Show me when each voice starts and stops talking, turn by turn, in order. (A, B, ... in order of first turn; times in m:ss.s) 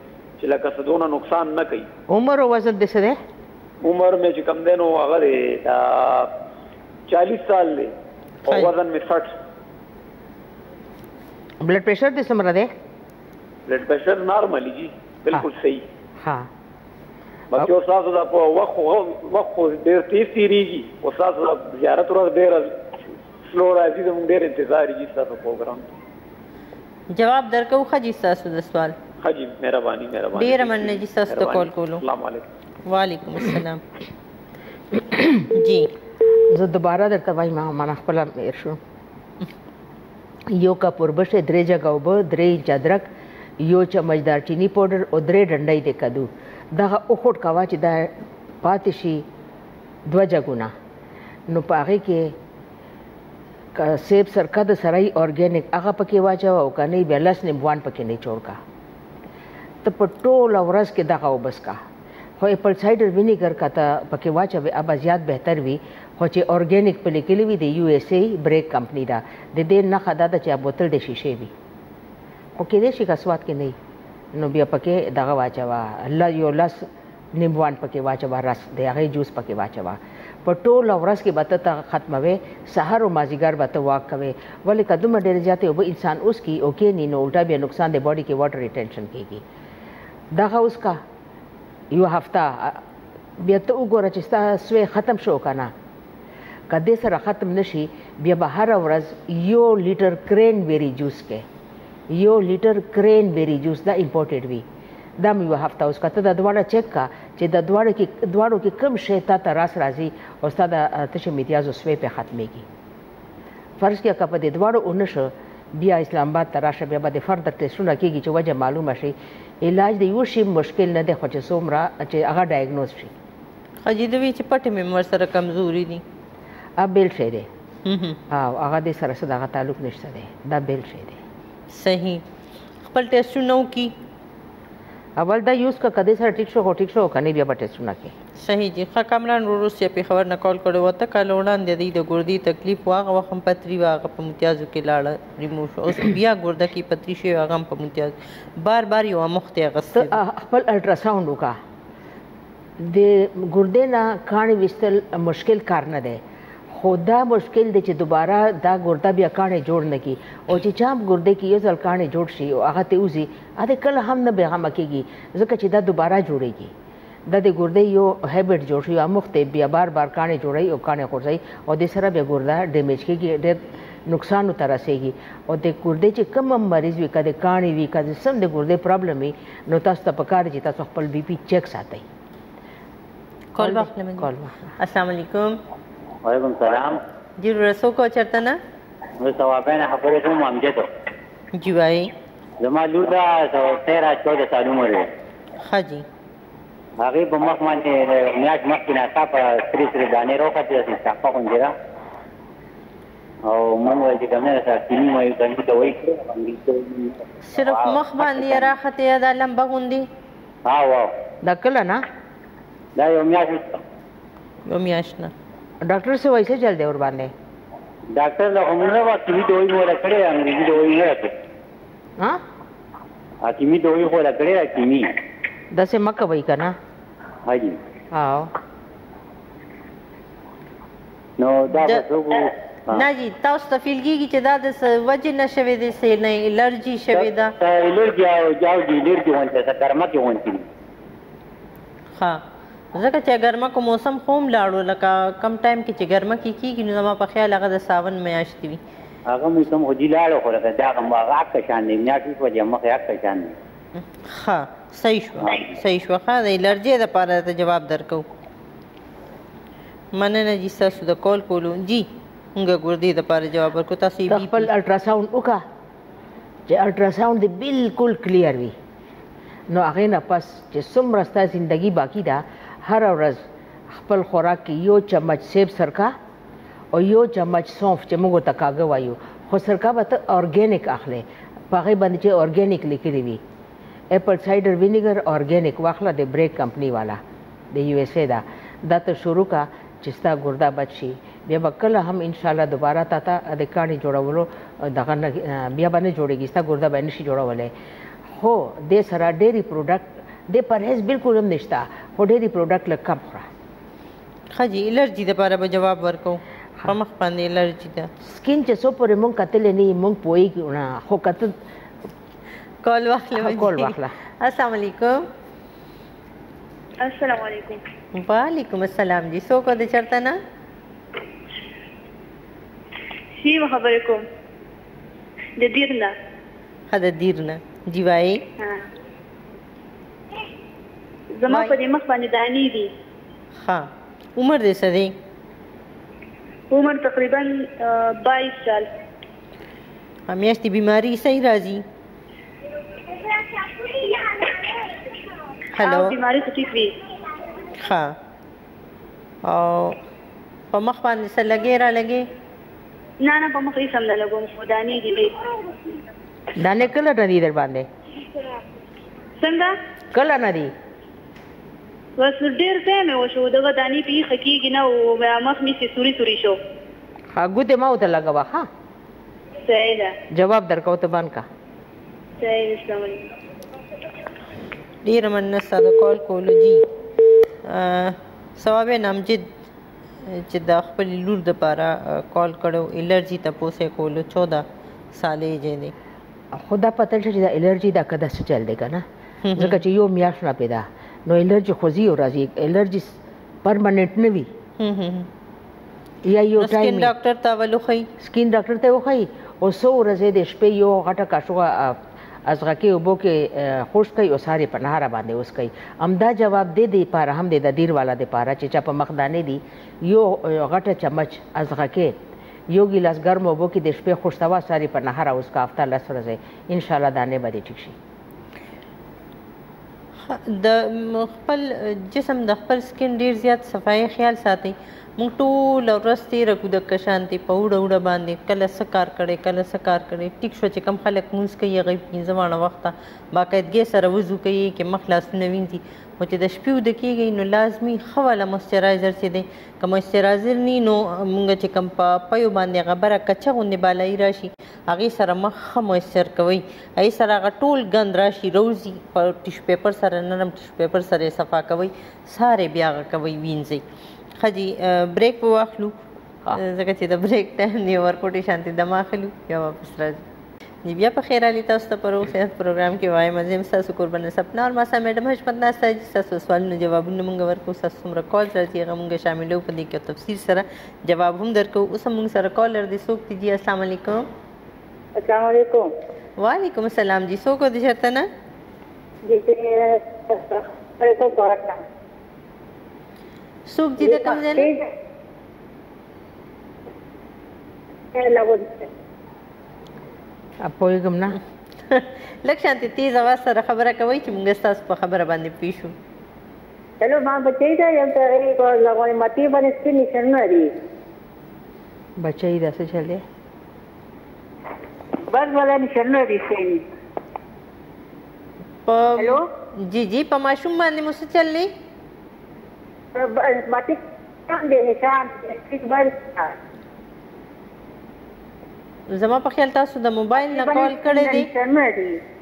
0:00.4-0:01.9 A
0:02.1-0:03.2 B
0:03.8-0:06.3 A
0:07.1-0:07.9 A
0:08.5-0:09.3 A
0:11.6-0:12.7 B
0:13.7-0:15.8 A
0:16.2-0:16.5 B
0:17.5-0:22.7 A
0:23.5-0:25.8 A
0:27.1-0:29.0 C
0:29.2-0:32.4 A
0:30.4-0:32.0 C
0:32.8-0:33.8 C
0:35.0-0:35.5 B
0:35.5-0:35.9 C
0:36.5-0:38.8 B
0:40.5-0:43.1 B
0:43.6-0:49.2 B
0:50.1-0:50.7 B
0:51.5-0:52.3 B
0:53.7-0:58.6 B
0:59.8-1:01.8 B
1:02.4-1:11.5 B
1:12.6-1:13.8 B
1:14.3-1:29.4 B
1:30.3-1:31.0 B
1:31.9-1:32.8 B
1:33.4-1:35.7 B
1:36.7-1:41.4 B
1:42.1-1:44.6 B
1:45.2-1:52.6 B
1:53.8-2:03.1 B
2:03.8-2:06.0 C
2:06.8-2:07.5 B
2:07.8-2:08.2 C
2:08.3-2:11.2 B
2:11.7-2:12.2 C
2:12.8-2:13.9 C
2:15.2-2:18.1 B
2:18.4-2:30.2 C
2:29.9-2:31.6 B
2:32.8-2:36.2 B
2:36.7-2:46.7 B
2:47.3-3:02.0 B
3:03.5-3:05.6 C
3:03.6-3:04.7 B
3:06.2-3:07.0 D
3:07.4-3:08.6 C
3:09.2-3:10.9 D
3:11.5-3:12.1 C
3:12.6-3:15.1 D
3:15.7-3:16.0 C
3:17.0-3:21.7 D
3:23.5-3:28.7 D
3:27.4-3:30.1 C
3:30.6-3:31.1 D
3:31.4-3:32.0 B
3:33.0-3:33.8 D
3:34.7-3:35.3 C
3:35.8-3:37.3 B
3:38.1-3:41.3 D
3:43.4-3:45.1 D
3:45.7-3:46.8 B
3:47.4-3:47.8 D
3:48.1-3:48.5 B
3:51.4-3:53.1 D
3:51.7-3:52.0 C
3:52.9-3:57.5 C
3:57.1-4:00.6 D
4:02.2-4:02.4 C
4:02.9-4:08.8 C
4:09.3-4:13.5 D
4:14.0-4:18.2 C
4:15.4-4:15.7 D
4:20.1-4:24.7 C
4:24.3-4:25.6 B
4:26.7-4:28.7 B
4:29.7-4:33.4 B
4:33.9-4:36.1 B
4:36.9-4:43.4 B
4:44.1-4:57.7 B
4:58.3-5:03.5 B
5:04.5-5:08.1 C
5:08.2-5:11.5 B
5:12.8-5:15.3 C
5:13.4-5:14.1 B
5:17.0-5:17.8 E
5:18.1-5:20.4 C
5:23.4-5:24.2 E
5:25.6-5:26.1 E
5:26.9-5:28.4 C
5:31.4-5:32.9 E
5:31.5-5:31.8 C
5:33.6-5:35.1 C
5:36.7-5:38.9 E
5:40.3-5:41.8 C
5:43.8-5:44.5 E
5:45.8-5:46.1 C
5:45.8-5:46.9 E
5:47.8-5:48.1 C
5:49.4-5:50.0 C
5:50.7-5:52.3 C
5:53.2-5:55.3 E
5:56.6-5:57.9 B
5:59.4-5:59.7 E
6:00.1-6:00.7 B
6:02.2-6:06.6 E
6:07.3-6:08.7 B
6:09.6-6:10.1 E
6:10.3-6:11.4 B
6:12.4-6:13.2 E
6:15.0-6:16.8 C
6:17.6-6:19.5 C
6:20.2-6:25.9 C
6:26.5-6:29.0 B
6:29.4-6:29.8 C
6:29.6-6:34.5 B
6:34.8-6:35.3 C
6:36.2-6:37.1 B
6:36.6-6:38.1 C
6:38.2-6:52.1 B
6:52.7-6:57.9 B
7:00.2-7:33.8 C
7:34.4-7:35.9 C
7:36.5-7:40.2 C
7:40.8-7:54.3 C
7:55.2-7:55.8 F
7:56.4-7:58.3 C
7:59.3-8:01.8 F
8:03.7-8:04.7 C
8:04.0-8:04.9 F
8:08.1-8:08.9 F
8:10.6-8:11.4 B
8:11.9-8:15.9 C
8:17.0-8:20.7 F
8:22.2-8:23.2 B
8:25.3-8:26.8 F
8:28.9-8:31.7 C
8:33.1-8:36.5 F
8:39.1-8:41.5 C
8:40.4-8:42.2 F